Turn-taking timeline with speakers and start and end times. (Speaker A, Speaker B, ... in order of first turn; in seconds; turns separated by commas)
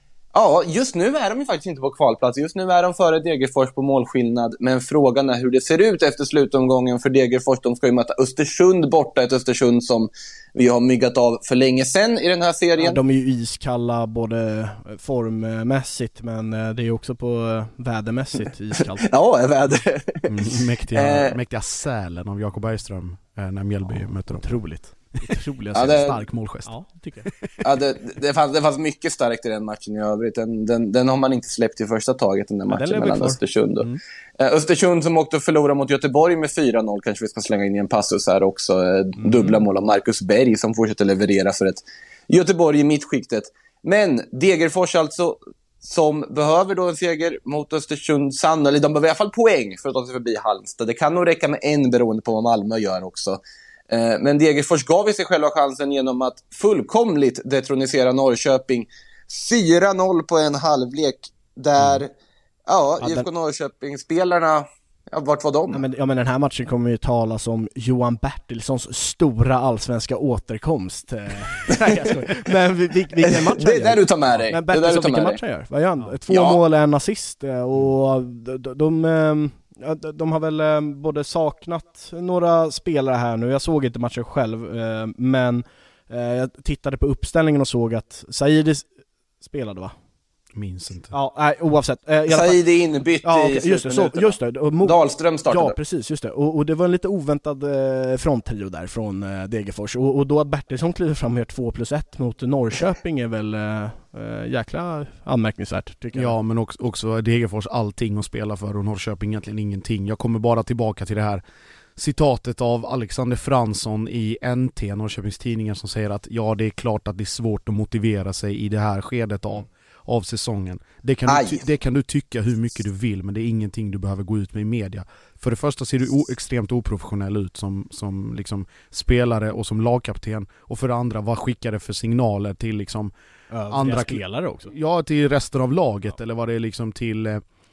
Speaker A: 0.3-13.0, Speaker B: 12.8-19.0, Speaker A: 18.8-21.4, Speaker C: 20.3-24.6, Speaker B: 24.3-26.1, Speaker C: 25.7-26.7, Speaker A: 25.8-26.2, Speaker B: 26.6-27.3, Speaker A: 27.6-62.1, Speaker B: 32.7-33.4, Speaker B: 39.2-39.6, Speaker A: 62.7-65.8, Speaker B: 63.0-63.2, Speaker B: 65.7-88.9, Speaker A: 73.2-75.4, Speaker A: 76.3-76.6, Speaker B: 89.4-89.9, Speaker C: 90.5-91.1, Speaker B: 91.1-92.6, Speaker A: 92.3-95.8, Speaker B: 93.2-106.3, Speaker C: 106.1-111.4, Speaker C: 112.0-133.1, Speaker A: 121.3-121.6, Speaker B: 133.5-134.7, Speaker C: 133.7-137.4